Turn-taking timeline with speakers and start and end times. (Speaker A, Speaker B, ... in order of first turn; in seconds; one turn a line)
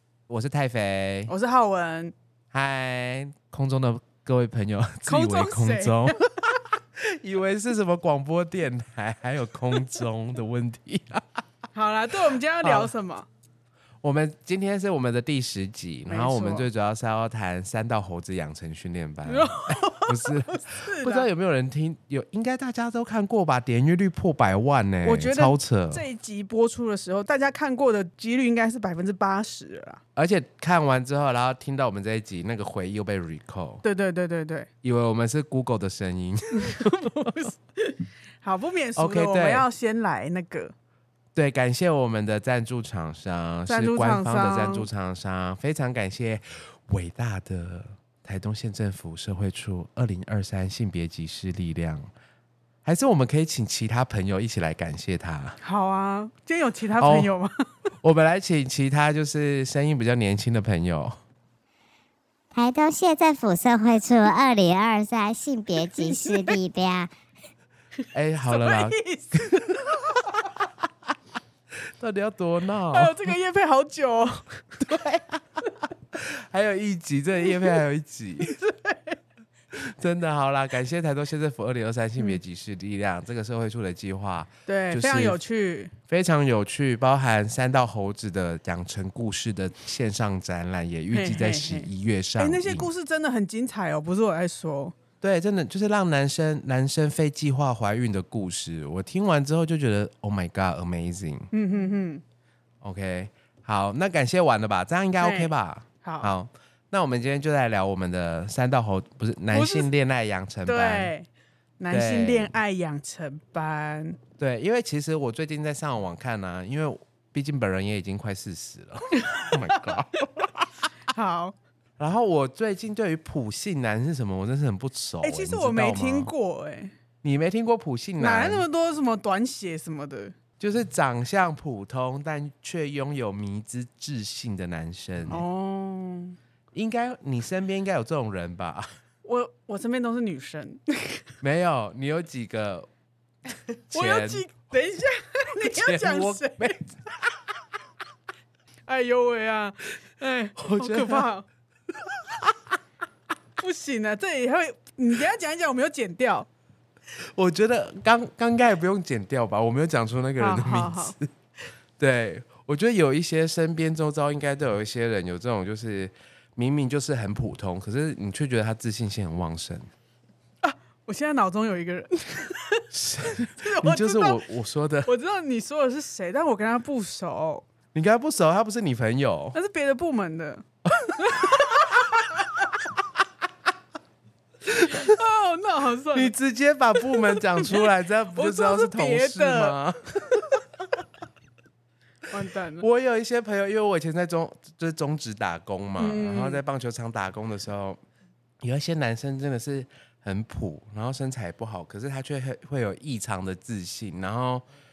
Speaker A: 0.3-1.3
Speaker B: 1.3-2.1
Speaker A: 2.5-11.4
Speaker B: 5.1-6.2
Speaker B: 11.7-13.2
Speaker A: 12.6-12.9
Speaker A: 14.0-26.0
Speaker B: 16.1-16.6
Speaker B: 19.2-21.3
Speaker B: 25.0-30.0
Speaker A: 30.1-33.8
Speaker B: 33.8-34.7
Speaker A: 34.8-37.3
Speaker B: 36.5-40.7
Speaker A: 39.0-39.6
Speaker A: 41.3-52.1
Speaker B: 43.7-44.9
Speaker A: 52.8-55.6
Speaker B: 55.6-57.6
Speaker A: 57.0-57.3
Speaker A: 58.0-61.1
Speaker C: 62.5-67.1
Speaker A: 68.1-70.4
Speaker B: 68.5-70.2
Speaker A: 71.8-73.3
Speaker B: 72.9-74.8
Speaker A: 74.8-78.6
Speaker B: 78.4-79.2
Speaker A: 79.7-85.4
Speaker B: 84.7-85.9
Speaker A: 86.1-92.9
Speaker B: 91.1-94.9
Speaker A: 95.2-101.5
Speaker B: 101.5-102.2
Speaker A: 102.8-111.1
Speaker B: 105.2-105.5
Speaker B: 106.0-106.3
Speaker B: 109.5-109.9
Speaker B: 110.6-111.3
Speaker B: 111.8-114.2
Speaker A: 111.9-112.5
Speaker A: 114.4-120.9
Speaker B: 119.2-120.3
Speaker B: 121.1-121.5
Speaker A: 122.0-126.3
Speaker B: 125.2-126.9
Speaker A: 127.2-128.7
Speaker B: 128.2-130.3
Speaker A: 130.6-135.4
Speaker B: 135.3-136.4
Speaker A: 136.7-138.9
Speaker B: 139.2-141.2
Speaker A: 141.4-142.9
Speaker A: 143.9-144.5
Speaker B: 143.9-146.8
Speaker A: 145.6-146.9
Speaker B: 148.9-151.4
Speaker A: 150.6-151.3
Speaker A: 152.0-152.5
Speaker B: 153.6-156.5
Speaker A: 157.2-161.3
Speaker B: 160.4-161.1
Speaker A: 162.0-169.9
Speaker B: 170.6-174.4
Speaker A: 172.9-175.1
Speaker B: 175.0-177.6
Speaker A: 177.9-179.6
Speaker B: 179.5-180.6
Speaker A: 180.9-181.4
Speaker B: 181.1-182.4
Speaker B: 184.7-186.3
Speaker A: 186.1-190.6
Speaker B: 187.0-189.8
Speaker B: 192.3-192.8
Speaker A: 192.8-198.0
Speaker B: 196.0-196.6
Speaker A: 198.6-204.6